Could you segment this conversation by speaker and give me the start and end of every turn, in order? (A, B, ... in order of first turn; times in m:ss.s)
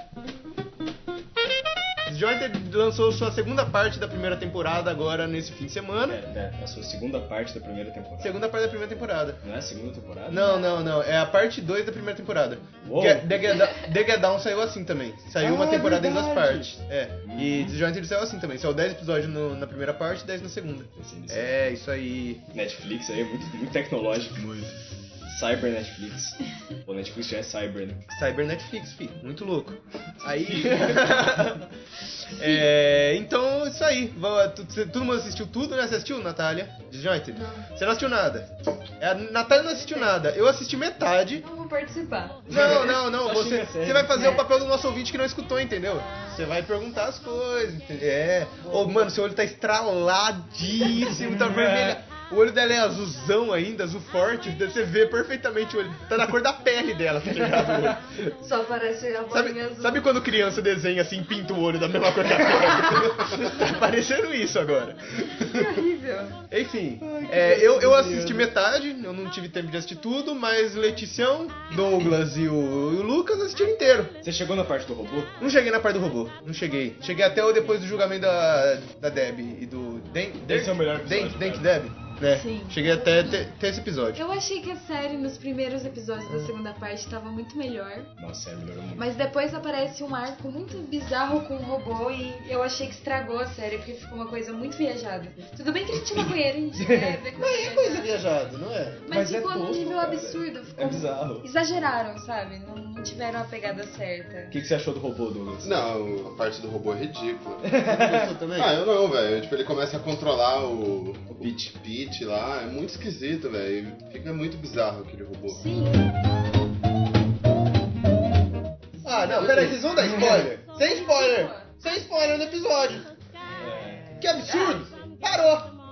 0:02.1-0:06.2 A
0:06.0-0:08.4 B
0:08.2-0:09.4 A
0:09.4-0:10.5 B
0:10.3-0:22.4 A
0:10.4-0:10.8 C
0:12.8-0:13.5 B
0:15.4-0:17.8 B
0:21.0-0:21.5 B
0:22.5-0:24.4 B
0:24.4-0:24.8 D
0:25.3-0:28.0 B
0:28.1-0:31.7 A
0:30.3-0:31.3 B
0:32.3-0:41.4 A
0:37.4-0:37.6 E
0:41.4-0:42.4 E
0:42.5-0:58.1 A
0:42.5-0:44.4 B
0:51.0-0:52.0 B
0:58.4-1:00.0 E
0:59.3-1:05.0 A
1:05.4-1:06.4 E
1:06.5-1:14.2 A
1:07.0-1:08.5 B
1:14.2-1:15.3 B
1:15.4-1:24.2 A
1:20.4-1:21.7 B
1:22.3-1:23.4 C
1:24.1-1:28.1 C
1:28.2-1:29.1 B
1:29.0-1:38.3 C
1:36.8-1:37.2 B
1:37.4-1:39.0 A
1:39.1-1:44.5 C
1:39.1-1:41.5 B
1:44.5-1:45.7 B
1:45.6-1:47.7 D
1:47.6-1:48.3 B
1:47.8-1:48.8 A
1:48.5-1:55.6 D
1:51.4-1:51.8 B
1:55.5-1:56.0 C
1:59.0-2:03.1 A
1:59.2-1:59.8 C
1:59.4-2:00.5 B
2:00.8-2:01.7 C
2:03.5-2:04.8 C
2:03.6-2:04.1 B
2:04.2-2:05.7 A